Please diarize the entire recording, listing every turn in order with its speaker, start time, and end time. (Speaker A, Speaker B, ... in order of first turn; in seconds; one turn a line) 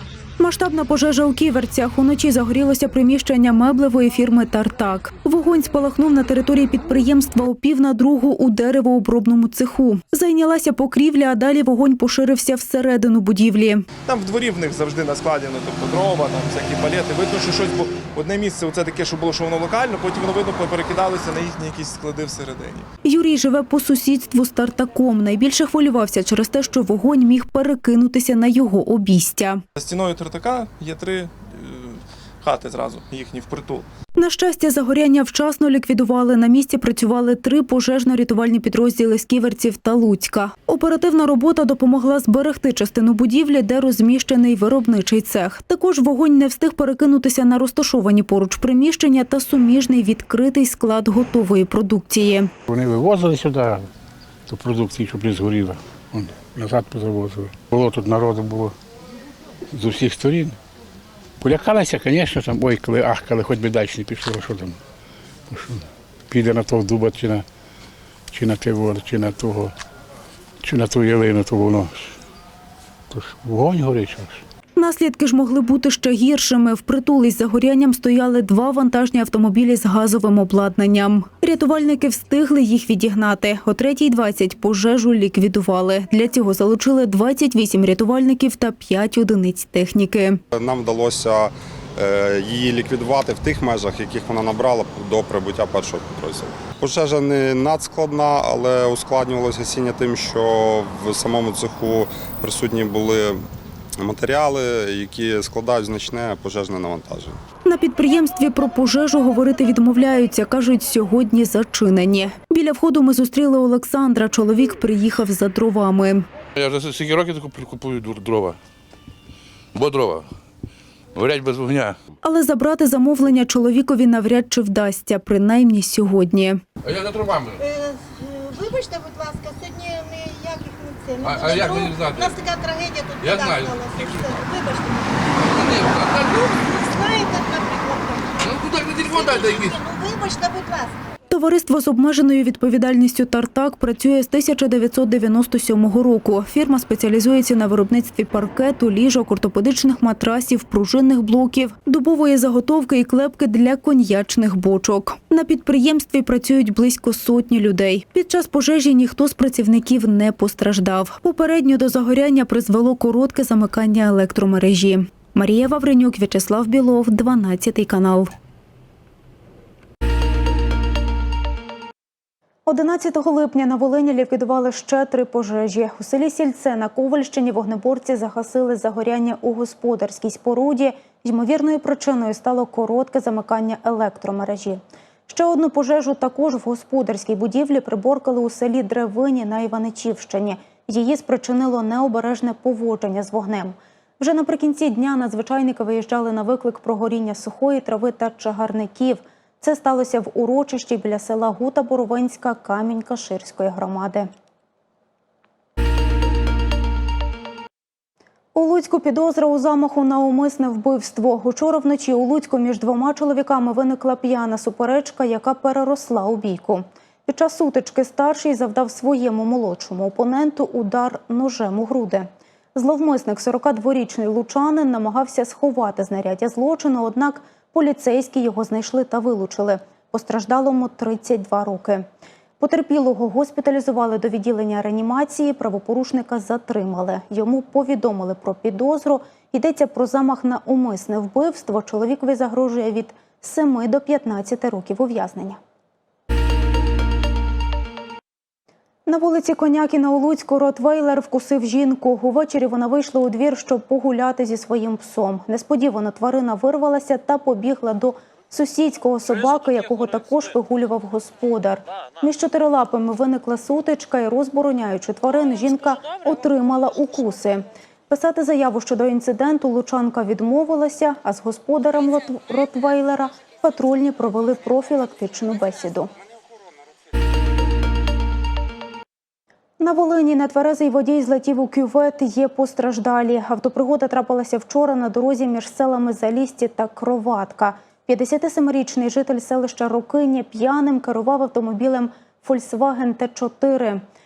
Speaker A: 0.4-13.8
Speaker B: 14.1-22.9
Speaker A: 23.0-29.6
Speaker B: 29.7-33.9
Speaker A: 34.2-52.5
Speaker C: 52.7-53.9
Speaker C: 54.5-58.7
Speaker C: 59.7-60.6
Speaker C: 61.4-64.8
Speaker C: 65.5-67.4
Speaker C: 68.3-69.7
Speaker C: 70.6-72.2
Speaker C: 73.1-74.4
Speaker A: 74.8-90.4
Speaker D: 90.5-103.4
Speaker D: 104.0-107.4
Speaker A: 107.6-116.3
Speaker A: 122.2-126.6
Speaker E: 126.8-127.6
Speaker F: 127.6-140.9
Speaker E: 131.2-132.3
Speaker E: 133.2-134.3
Speaker E: 135.4-136.8
Speaker E: 138.4-139.8
Speaker A: 141.3-168.3
Speaker A: 172.7-204.3
Speaker A: 208.5-232.1
Speaker A: 232.6-245.6
Speaker A: 249.1-276.1
Speaker A: 279.8-294.0